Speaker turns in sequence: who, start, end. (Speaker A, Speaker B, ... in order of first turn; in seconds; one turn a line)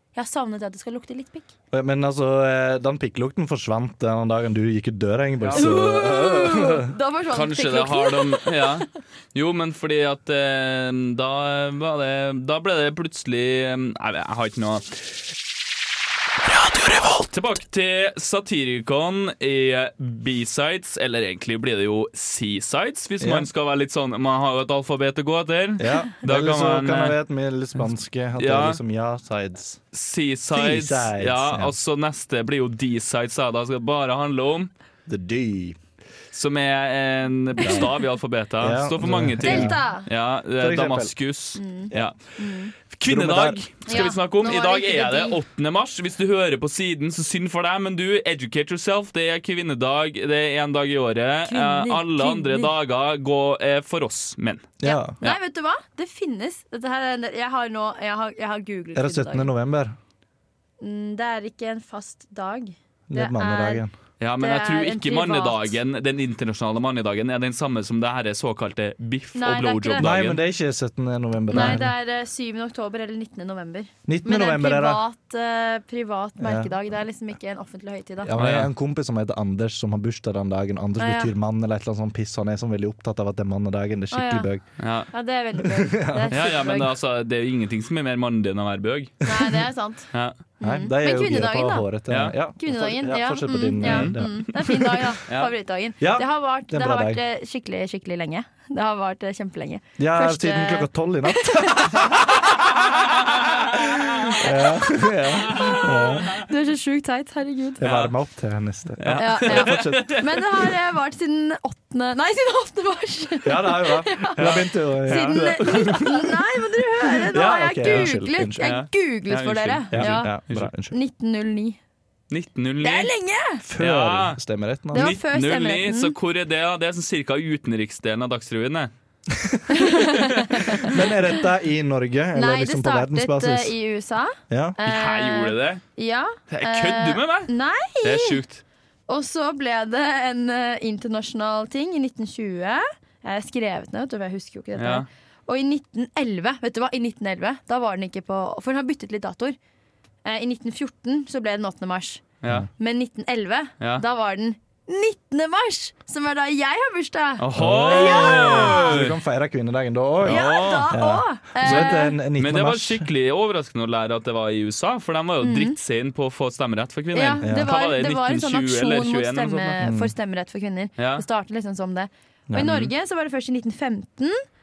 Speaker A: 0.1-1.5
Speaker B: 1.7-6.9
Speaker C: 5.4-5.7
Speaker A: 5.5-8.9
Speaker C: 7.3-15.0
Speaker C: 16.4-27.2
Speaker B: 23.2-23.5
Speaker B: 25.8-29.8
Speaker C: 28.4-28.8
Speaker C: 29.9-34.7
Speaker B: 30.5-31.7
Speaker B: 35.1-35.8
Speaker C: 36.3-42.2
Speaker B: 38.6-39.8
Speaker A: 39.4-40.1
Speaker B: 40.6-41.1
Speaker A: 41.6-42.7
Speaker C: 42.9-55.4
Speaker B: 43.1-43.6
Speaker A: 43.9-45.4
Speaker A: 51.5-52.7
Speaker B: 54.8-55.2
Speaker A: 54.8-59.5
Speaker B: 59.0-60.0
Speaker A: 60.8-63.8
Speaker B: 63.1-63.9
Speaker C: 64.2-70.4
Speaker A: 64.4-65.8
Speaker A: 69.3-70.1
Speaker B: 70.0-71.9
Speaker A: 71.5-78.3
Speaker C: 71.5-71.8
Speaker B: 74.1-75.0
Speaker B: 76.4-76.7
Speaker B: 78.2-84.6
Speaker C: 78.4-78.7
Speaker A: 81.0-81.3
Speaker A: 84.1-84.5
Speaker C: 84.8-85.1
Speaker A: 85.1-86.9
Speaker B: 85.6-86.5
Speaker C: 86.3-89.3
Speaker A: 89.2-90.1
Speaker A: 90.6-91.9
Speaker B: 90.6-95.2
Speaker C: 92.1-92.3
Speaker A: 92.6-102.3
Speaker C: 93.8-94.2
Speaker B: 96.0-97.2
Speaker B: 100.0-102.6
Speaker C: 102.9-104.4
Speaker B: 104.3-106.4
Speaker A: 104.3-107.8
Speaker C: 105.5-106.4
Speaker B: 107.8-110.2
Speaker C: 107.8-108.1
Speaker C: 109.0-110.4
Speaker A: 109.1-120.3
Speaker B: 113.4-116.4
Speaker C: 114.4-115.7
Speaker B: 117.3-118.7
Speaker C: 118.6-120.7
Speaker B: 119.9-121.0
Speaker A: 120.9-121.8
Speaker C: 122.3-123.1
Speaker A: 122.8-123.6
Speaker B: 123.6-125.2
Speaker C: 123.8-124.4
Speaker C: 124.9-128.9
Speaker A: 124.9-126.2
Speaker B: 129.3-129.8
Speaker A: 129.7-131.0
Speaker C: 130.0-130.6
Speaker B: 130.8-133.8
Speaker A: 132.3-138.4
Speaker B: 134.5-134.8
Speaker C: 134.9-135.8
Speaker C: 136.5-138.6
Speaker A: 139.1-149.6
Speaker C: 144.8-145.1
Speaker A: 150.2-152.2
Speaker C: 152.4-152.7
Speaker A: 152.8-159.0
Speaker C: 157.4-159.2
Speaker B: 157.6-163.1
Speaker C: 160.2-161.0
Speaker A: 160.3-162.2
Speaker C: 161.6-169.8
Speaker A: 165.4-165.8
Speaker A: 167.1-174.4
Speaker B: 167.4-167.7
Speaker B: 169.8-170.1
Speaker C: 171.0-171.2
Speaker B: 172.5-172.9